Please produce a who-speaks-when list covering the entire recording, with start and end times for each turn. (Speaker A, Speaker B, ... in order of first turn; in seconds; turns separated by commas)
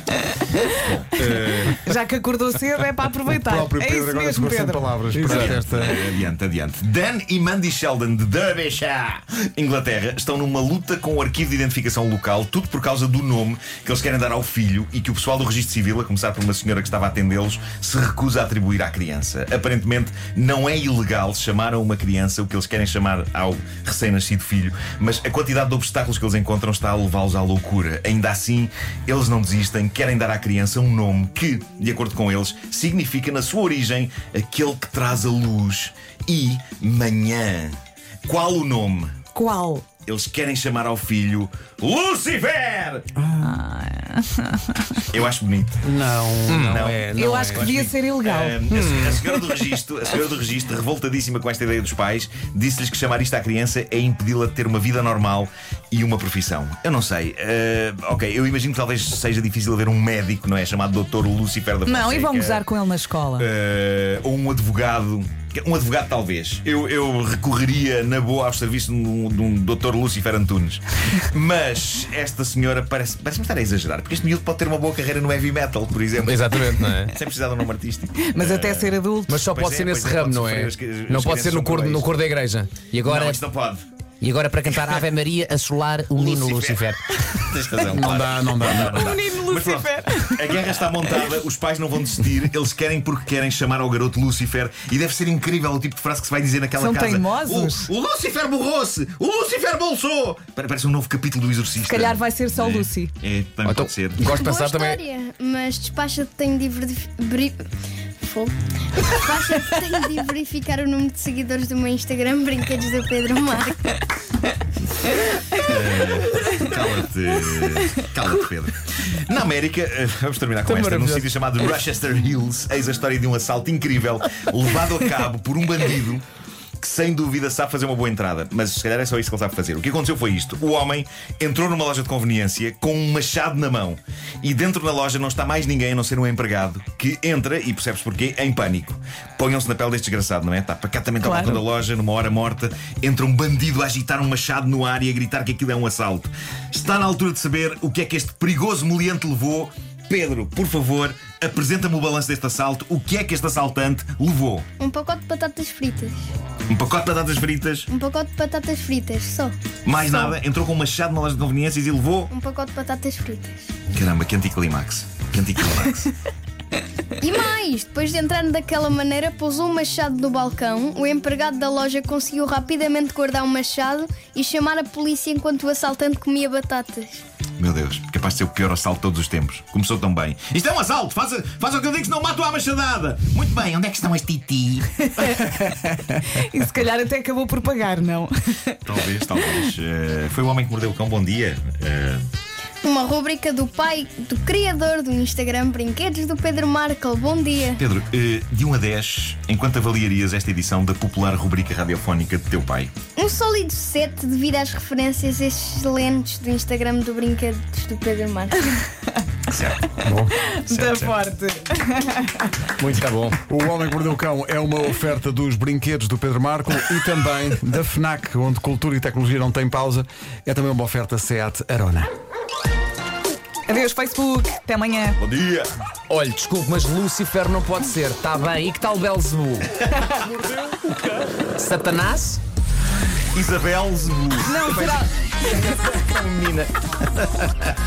Speaker A: 0.7-1.2, Speaker B: 1.3-1.6, Speaker C: 1.7-5.2, Speaker B: 3.4-6.0, Speaker A: 5.2-39.2, Speaker D: 5.2-5.5, Speaker C: 39.4-39.9, Speaker A: 40.0-43.1, Speaker B: 43.2-43.5, Speaker C: 43.4-45.1, Speaker A: 45.1-62.6, Speaker B: 45.8-47.8, Speaker D: 46.5-46.8, Speaker C: 47.1-48.7, Speaker D: 48.7-49.2, Speaker C: 61.9-63.5, Speaker A: 63.4-82.1, Speaker D: 76.2-77.1, Speaker C: 78.2-79.5, Speaker D: 79.3-83.4, Speaker A: 83.0-83.8, Speaker D: 84.2-87.0, Speaker A: 84.7-85.0, Speaker A: 86.1-104.2, Speaker B: 87.9-89.1, Speaker C: 88.6-90.6, Speaker C: 96.8-97.9, Speaker C: 101.8-103.1, Speaker D: 103.6-105.0, Speaker E: 104.3-107.6, Speaker E: 108.2-113.9, Speaker A: 115.6-126.2, Speaker D: 120.7-121.3, Speaker A: 126.8-154.7, Speaker C: 141.2-141.6, Speaker E: 154.8-156.2, Speaker A: 156.7-157.9, Speaker E: 157.9-159.5, Speaker A: 159.8-162.3, Speaker E: 162.3-163.7, Speaker A: 163.9-166.1, Speaker E: 167.2-177.2, Speaker A: 177.6-185.0, Speaker C: 185.0-188.8, Speaker A: 188.8-192.2, Speaker E: 192.8-197.8, Speaker A: 197.8-202.9, Speaker E: 203.2-208.9, Speaker A: 209.5-209.8, Speaker B: 210.0-210.4, Speaker C: 210.3-212.5, Speaker A: 210.7-211.2, Speaker B: 212.8-222.1, Speaker D: 212.9-213.4, Speaker C: 223.7-225.2, Speaker A: 225.2-225.7, Speaker D: 226.1-230.8, Speaker D: 231.4-232.4, Speaker A: 233.3-237.7, Speaker C: 234.4-235.1